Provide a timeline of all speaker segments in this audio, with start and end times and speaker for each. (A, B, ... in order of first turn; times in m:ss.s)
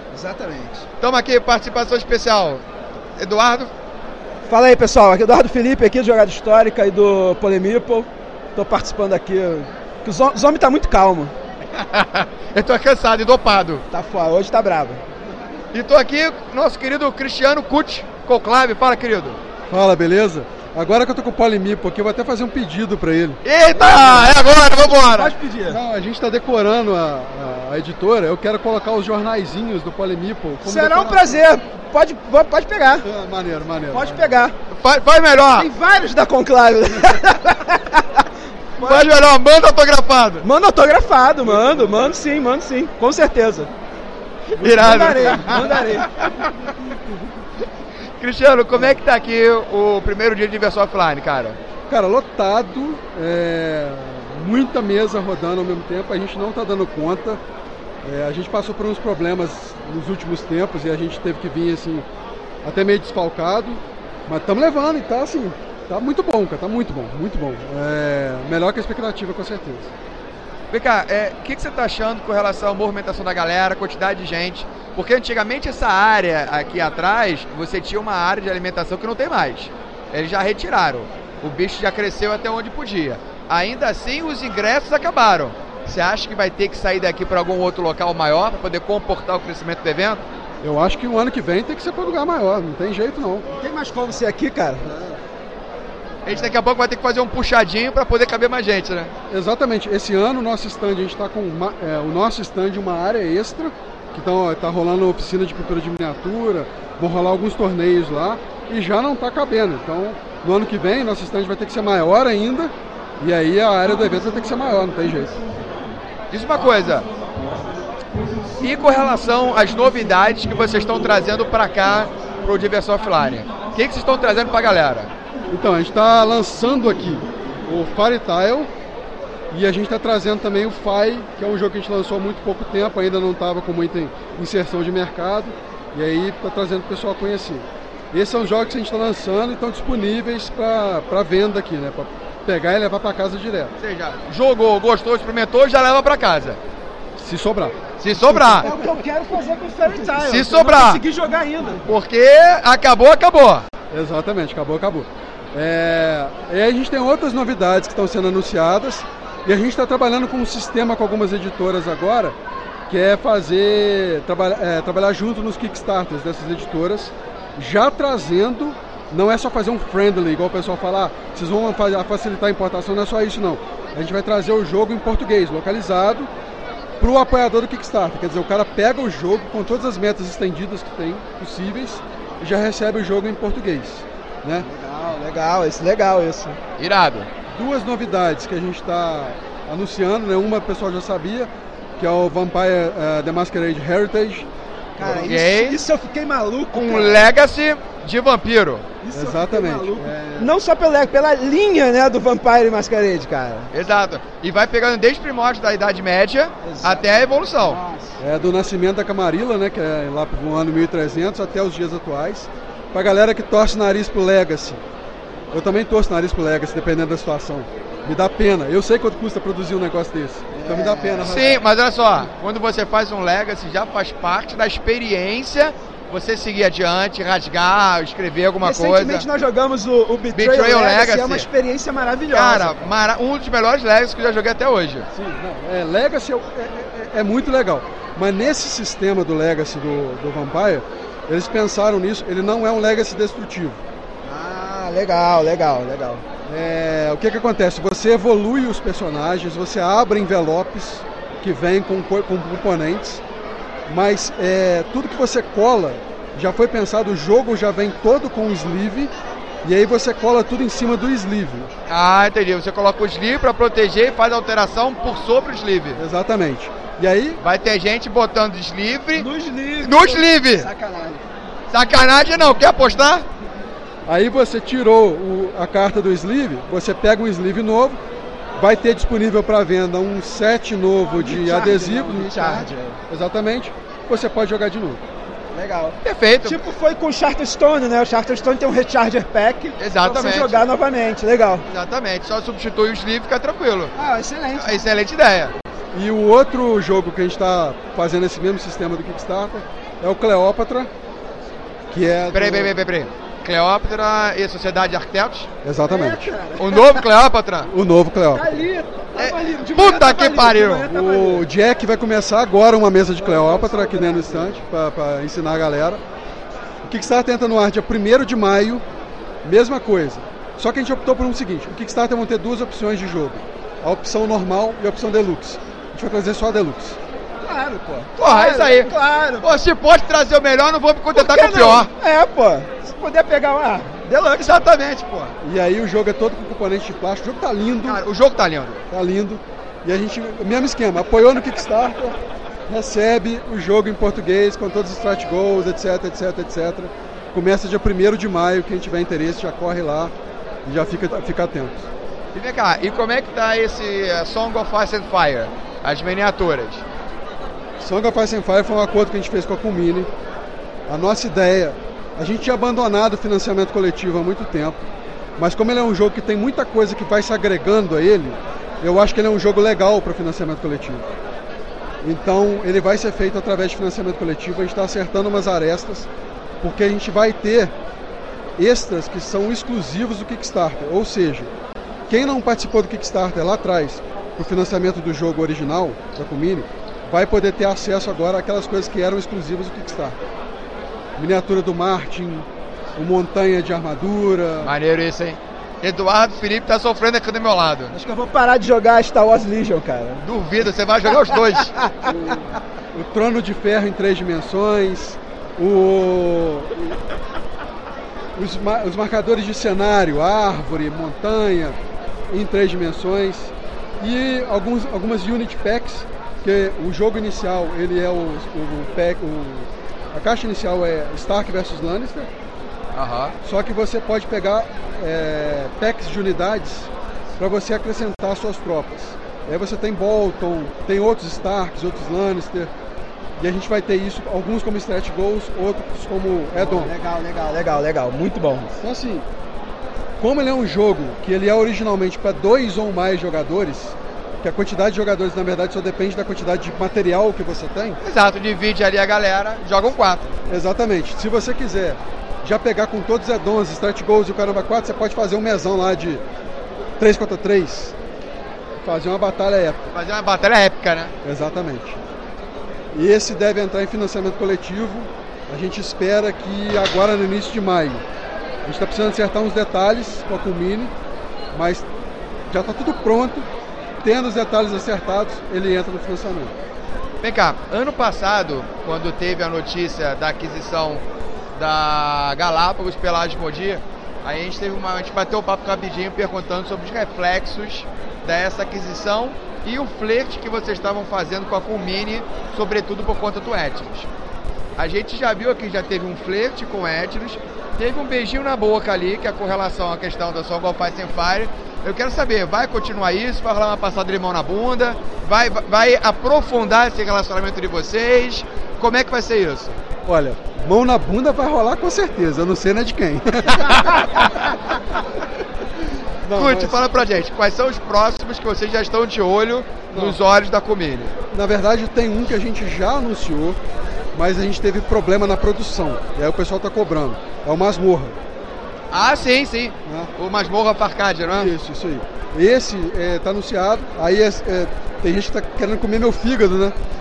0:00.1-0:00.9 A
0:01.0-0:02.6 B
0:03.2-0:03.7 B
0:04.5-0:11.3 A
0:11.8-0:13.8 B
0:13.9-0:15.0 A
0:15.7-0:19.4 B
0:19.7-0:23.4 C
0:23.4-0:25.3 B
0:23.7-0:25.8 A
0:25.7-0:31.4 C
0:30.6-0:33.1 A
0:33.0-0:34.4 C
0:33.9-0:34.6 A
0:34.7-0:35.7 B
0:35.6-0:38.2 A
0:38.8-0:39.1 A
0:38.8-0:40.5 B
0:40.4-0:43.7 A
0:41.5-0:42.1 C
0:44.5-0:46.5 B
0:44.6-0:46.1 A
0:44.8-0:45.4 C
0:48.2-0:51.6 B
0:48.7-0:49.0 C
0:51.9-0:57.4 C
0:58.0-1:02.1 C
1:02.6-1:09.9 C
1:10.7-1:30.2 B
1:30.6-1:33.4 C
1:33.6-1:34.8 A
1:34.8-1:35.2 C
1:36.2-1:39.1 B
1:36.3-1:36.5 C
1:39.3-1:55.4 C
1:56.3-1:57.1 B
1:58.6-2:05.1 B
2:05.5-2:08.7 C
2:09.5-2:23.7 C
2:23.8-2:26.6 B
2:27.2-2:28.8 C
2:28.0-2:28.7 B
2:28.6-2:31.8 A
2:30.2-2:31.0 B
2:31.8-2:33.6 B
2:33.9-2:42.3 C
2:42.9-2:56.3 C
2:57.0-3:04.7 C
3:04.6-3:06.6 A
3:06.8-3:07.3 B
3:07.5-3:14.5 C
3:15.0-3:17.3 A
3:15.0-3:15.3 C
3:15.1-3:15.8 B
3:16.7-3:18.8 B
3:19.0-3:23.7 A
3:19.1-3:20.5 C
3:23.7-3:27.8 B
3:26.6-3:28.2 A
3:28.2-3:34.8 C
3:35.5-3:41.6 C
3:40.5-3:41.5 A
3:41.2-3:49.3 B
3:48.6-3:52.9 A
3:50.3-3:51.5 B
3:52.3-3:55.1 B
3:55.1-4:03.8 C
4:04.2-4:06.2 A
4:06.5-4:13.2 C
4:13.9-4:19.1 C
4:19.6-4:21.7 C
4:21.9-4:26.0 B
4:26.0-4:27.4 C
4:27.4-4:30.7 B
4:29.1-4:31.2 A
4:31.7-4:33.2 B
4:34.1-4:38.0 C
4:38.6-4:45.0 C
4:41.1-4:43.0 A
4:45.5-4:51.6 A
4:46.0-4:46.6 B
4:49.8-4:50.6 B
4:51.7-4:53.9 B
4:53.9-4:54.9 A
4:54.6-4:55.5 B
4:55.9-5:00.9 C
5:01.9-5:02.7 C
5:02.3-5:05.5 B
5:05.6-5:06.3 C
5:05.9-5:07.0 A
5:06.6-5:07.7 B
5:07.6-5:08.6 C
5:08.3-5:11.5 A
5:09.2-5:10.9 B
5:10.9-5:16.0 C
5:13.2-5:14.6 A
5:16.8-5:18.8 C
5:19.4-5:27.0 C
5:27.4-5:29.6 A
5:28.2-5:31.9 B
5:31.1-5:34.6 A
5:34.3-5:35.3 B
5:35.4-5:38.0 C
5:37.8-5:38.8 B
5:38.9-5:42.2 C
5:42.7-5:50.1 C
5:50.6-5:51.9 C
5:52.3-5:56.8 B
5:57.8-6:00.1 C
6:00.9-6:04.8 C
6:05.4-6:11.0 C
6:12.0-6:16.1 C
6:16.6-6:17.7 C
6:18.6-6:21.5 C
6:22.1-6:30.2 C
6:31.2-6:34.7 C
6:34.6-6:38.0 B
6:37.9-6:40.2 A
6:40.2-6:41.7 B
6:41.6-6:42.1 A
6:42.0-6:47.0 C
6:48.4-6:51.8 C
6:52.3-7:02.3 C
7:02.9-7:03.4 B
7:03.4-7:12.7 C
7:13.4-7:16.9 C
7:16.6-7:18.8 A
7:18.8-7:19.2 C
7:20.2-7:28.0 C
7:28.0-7:30.3 B
7:30.5-7:36.2 C
7:37.0-7:38.0 C
7:38.8-7:39.9 C
7:39.9-7:41.1 B
7:41.2-7:42.0 C
7:42.9-7:48.0 C
7:48.6-7:50.9 C
7:51.5-7:51.9 C
7:52.5-7:53.5 C
7:54.0-7:56.5 C
7:57.2-8:14.1 B
8:14.8-8:29.8 B
8:30.0-8:34.1 C
8:34.0-8:34.5 B
8:36.2-8:36.8 C
8:36.3-8:41.1 B
8:39.9-8:40.2 C
8:41.3-8:43.6 C
8:44.1-8:48.2 C
8:48.9-8:51.5 B
8:49.9-8:50.1 C
8:51.3-8:56.8 C